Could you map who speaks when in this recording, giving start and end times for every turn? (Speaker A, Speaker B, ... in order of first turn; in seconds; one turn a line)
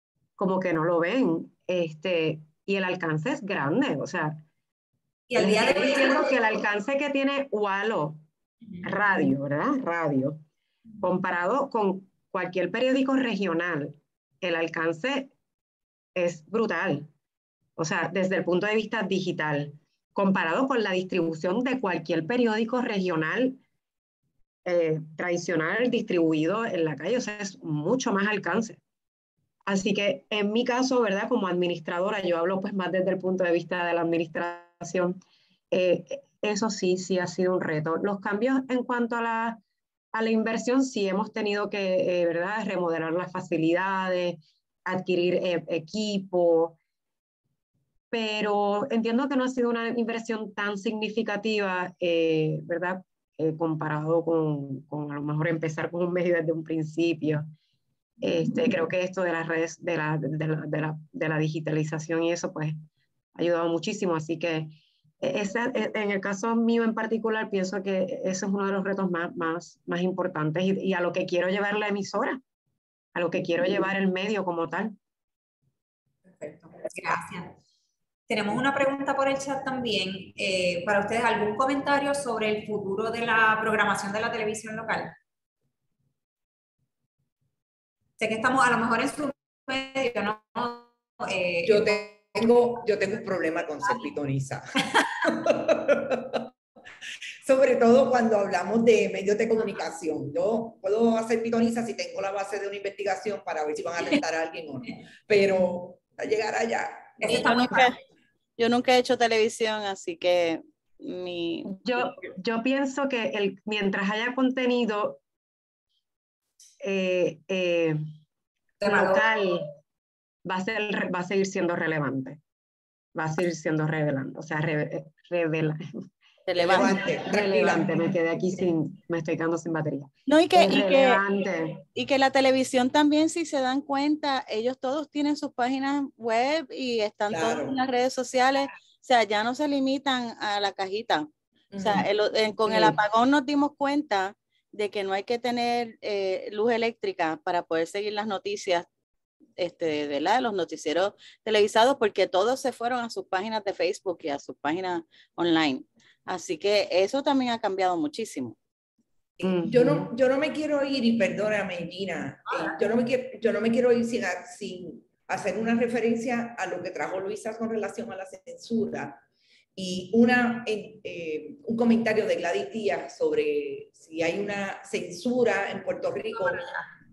Speaker A: 0.4-4.4
Speaker B: 5.3-6.3
Speaker A: 5.4-8.2
Speaker A: 8.8-10.4
Speaker A: 11.0-15.3
Speaker A: 16.1-17.1
Speaker A: 17.8-23.6
Speaker A: 24.6-28.8
Speaker A: 29.6-35.2
Speaker A: 35.7-39.6
Speaker A: 40.1-46.8
Speaker A: 48.1-57.5
Speaker A: 58.2-62.8
Speaker A: 63.3-72.4
Speaker A: 73.1-75.0
Speaker B: 76.4-77.6
Speaker B: 78.3-85.2
Speaker B: 88.2-92.0
Speaker C: 91.6-96.5
Speaker C: 97.4-107.4
Speaker B: 107.2-107.9
Speaker D: 107.2-108.0
Speaker D: 108.6-112.1
Speaker A: 111.7-115.2
Speaker A: 116.8-118.0
Speaker B: 118.8-119.2
Speaker A: 118.8-119.7
Speaker A: 120.4-122.4
Speaker A: 123.1-125.8
Speaker D: 126.5-127.7
Speaker A: 126.6-131.8
Speaker C: 126.7-127.9
Speaker D: 130.3-131.2
Speaker D: 131.8-141.3
Speaker C: 137.3-137.8
Speaker C: 141.7-142.1
Speaker D: 141.8-148.8
Speaker C: 142.7-143.0
Speaker D: 149.6-158.6
Speaker C: 159.4-169.2
Speaker A: 159.4-160.1
Speaker C: 169.8-176.7
Speaker B: 176.2-176.8